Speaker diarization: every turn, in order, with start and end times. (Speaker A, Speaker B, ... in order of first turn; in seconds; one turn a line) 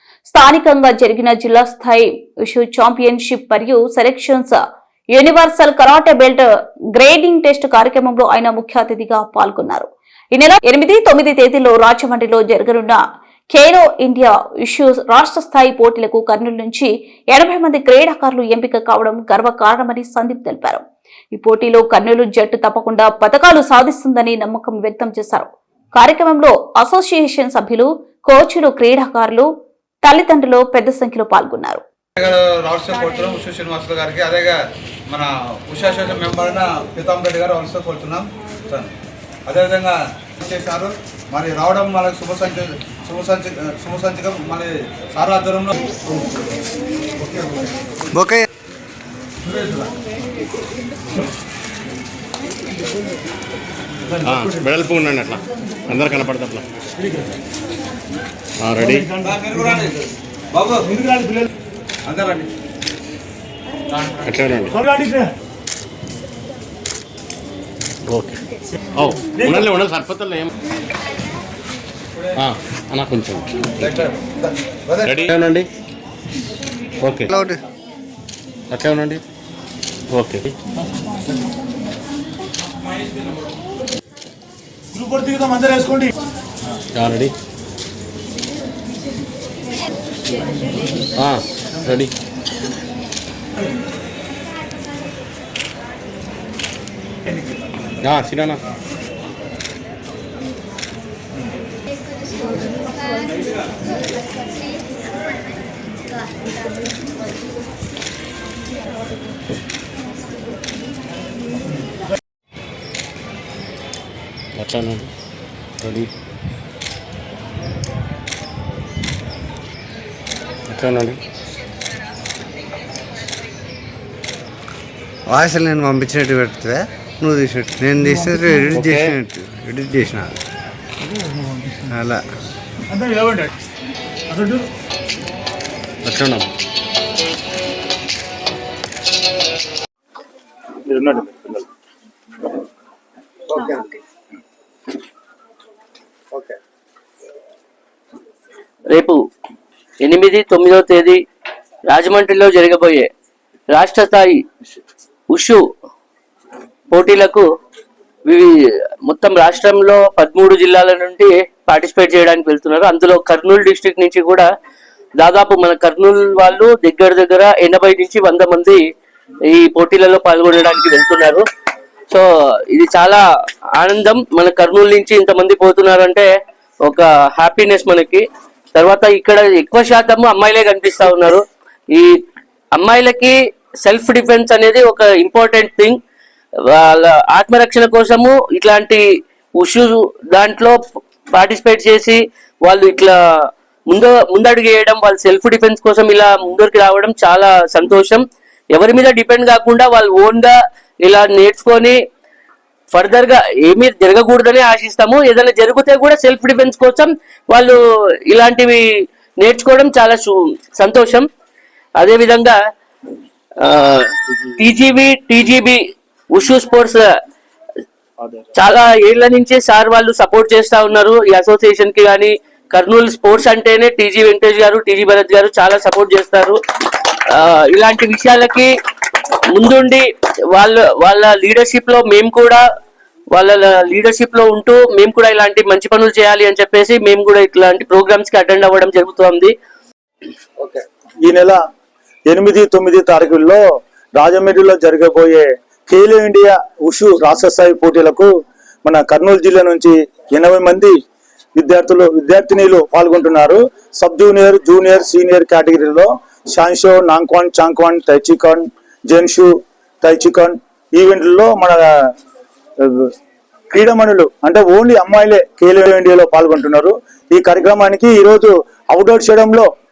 Speaker A: 0.3-4.6
Speaker A: 5.1-29.5
Speaker A: 30.0-31.8
Speaker B: 32.2-34.6
Speaker B: 35.1-38.9
Speaker B: 39.5-45.8
Speaker B: 47.2-47.5
Speaker C: 48.1-48.5
Speaker B: 49.5-49.9
Speaker D: 54.2-56.6
Speaker D: 58.6-59.1
Speaker B: 59.2-60.9
Speaker B: 62.0-62.5
Speaker D: 64.3-64.8
Speaker D: 68.1-68.4
Speaker D: 69.0-70.5
Speaker D: 72.4-73.5
Speaker B: 73.8-75.2
Speaker D: 75.0-75.7
Speaker D: 77.0-77.3
Speaker C: 77.3-77.6
Speaker D: 78.7-79.2
Speaker D: 80.1-80.5
Speaker D: 87.0-87.3
Speaker D: 91.2-92.1
Speaker D: 98.0-98.6
Speaker D: 114.6-115.1
Speaker D: 115.8-116.1
Speaker D: 120.7-121.2
Speaker C: 125.3-130.4
Speaker D: 128.7-129.2
Speaker C: 131.9-132.2
Speaker D: 136.0-136.5
Speaker E: 140.9-141.6
Speaker F: 148.9-149.2
Speaker F: 150.0-151.2
Speaker F: 151.9-153.1
Speaker F: 153.7-154.4
Speaker F: 155.3-155.6
Speaker F: 156.9-157.4
Speaker F: 159.1-164.5
Speaker F: 165.2-168.8
Speaker F: 169.5-171.4
Speaker F: 172.1-173.2
Speaker F: 173.8-176.3
Speaker F: 176.9-182.1
Speaker F: 182.8-186.0
Speaker F: 186.8-189.1
Speaker F: 189.6-190.8
Speaker F: 191.3-193.2
Speaker F: 193.9-202.0
Speaker F: 202.9-208.8
Speaker F: 209.4-211.3
Speaker F: 212.0-212.6
Speaker F: 213.6-215.8
Speaker F: 216.3-217.0
Speaker F: 218.6-228.7
Speaker F: 229.5-232.6
Speaker F: 233.3-239.5
Speaker E: 241.3-241.6
Speaker E: 242.3-243.6
Speaker E: 244.2-248.3
Speaker E: 248.9-251.0
Speaker E: 251.6-259.5
Speaker E: 260.0-261.9
Speaker E: 262.9-263.1
Speaker E: 263.7-269.7